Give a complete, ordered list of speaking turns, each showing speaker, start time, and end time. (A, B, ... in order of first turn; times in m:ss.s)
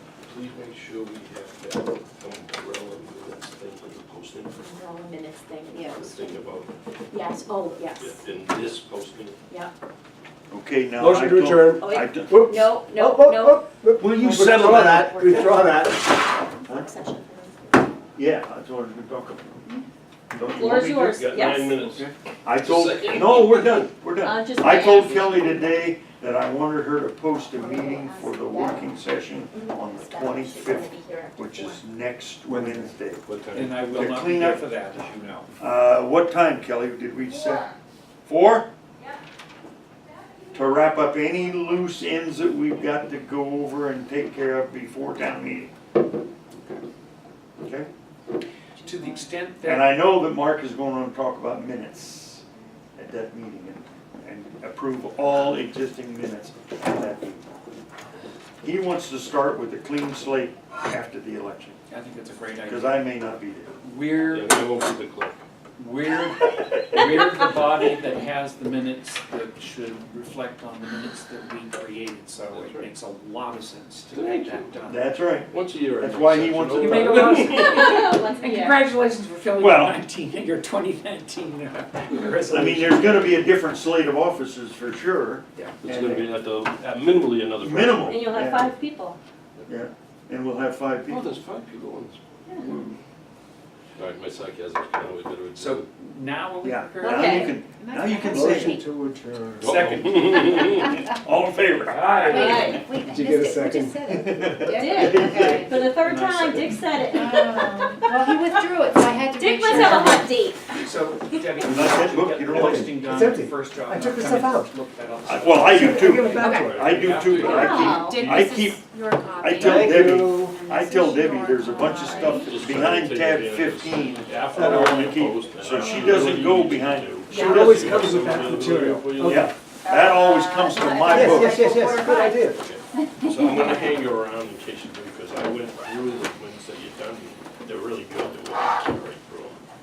0:00.2-0:04.6 A
0:04.6-0:06.3 B
0:05.8-0:06.7 A
0:07.1-0:08.2 B
0:08.0-0:09.4 A
0:10.5-0:12.5 C
0:11.0-0:16.1 D
0:11.8-0:13.7 B
0:14.0-0:15.4 C
0:15.0-0:15.9 B
0:16.4-0:17.8 B
0:18.2-0:19.6 C
0:20.3-0:21.2 C
0:20.5-0:21.9 B
0:20.5-0:23.9 A
0:22.0-0:34.7 C
0:24.2-0:25.9 B
0:27.5-0:28.9 B
0:29.5-0:31.8 B
0:32.5-0:32.9 E
0:33.2-0:33.9 A
0:33.5-0:35.5 E
0:35.6-0:37.7 C
0:37.3-0:37.7 B
0:38.3-0:38.7 C
0:40.0-0:41.8 B
0:40.5-0:45.7 C
0:47.6-0:47.9 C
0:48.8-0:50.0 E
0:49.6-0:52.4 C
0:53.0-0:57.4 C
0:58.6-1:01.8 C
1:01.9-1:03.1 E
1:02.6-1:03.8 C
1:03.8-1:04.7 E
1:04.2-1:05.4 A
1:05.8-1:15.2 E
1:12.5-1:12.9 A
1:14.1-1:14.8 A
1:14.9-1:17.4 C
1:15.5-1:18.0 A
1:16.7-1:23.5 E
1:17.5-1:18.8 B
1:19.6-1:20.0 C
1:22.5-1:26.3 C
1:25.8-1:28.3 A
1:27.6-1:28.7 C
1:28.1-1:29.2 B
1:29.7-1:31.3 C
1:31.0-1:32.2 A
1:32.6-1:33.0 C
1:34.0-1:35.9 A
1:35.5-1:37.6 E
1:36.6-1:38.8 C
1:37.0-1:37.6 B
1:37.8-1:38.4 F
1:38.2-1:39.8 D
1:39.6-1:41.0 A
1:39.6-1:40.9 E
1:40.6-1:42.8 C
1:41.8-1:42.8 E
1:42.2-1:45.9 F
1:42.3-1:42.8 B
1:43.0-1:44.5 D
1:44.3-1:45.8 C
1:44.6-1:48.4 B
1:46.0-1:46.8 E
1:47.1-1:50.5 F
1:49.3-1:50.7 B
1:49.7-1:50.1 E
1:50.7-1:57.4 E
1:51.6-1:52.9 C
1:52.5-1:54.7 D
1:55.2-2:08.0 C
1:55.7-1:57.0 D
1:56.4-1:56.7 F
1:56.6-1:58.4 A
1:57.4-1:58.2 B
1:57.4-2:02.6 F
1:59.6-2:00.6 D
2:01.8-2:02.4 B
2:02.3-2:09.5 A
2:05.7-2:06.2 F
2:07.3-2:07.6 F
2:07.4-2:09.5 D
2:09.2-2:11.6 C
2:09.8-2:12.2 B
2:11.0-2:12.6 D
2:11.9-2:12.4 F
2:12.5-2:19.6 A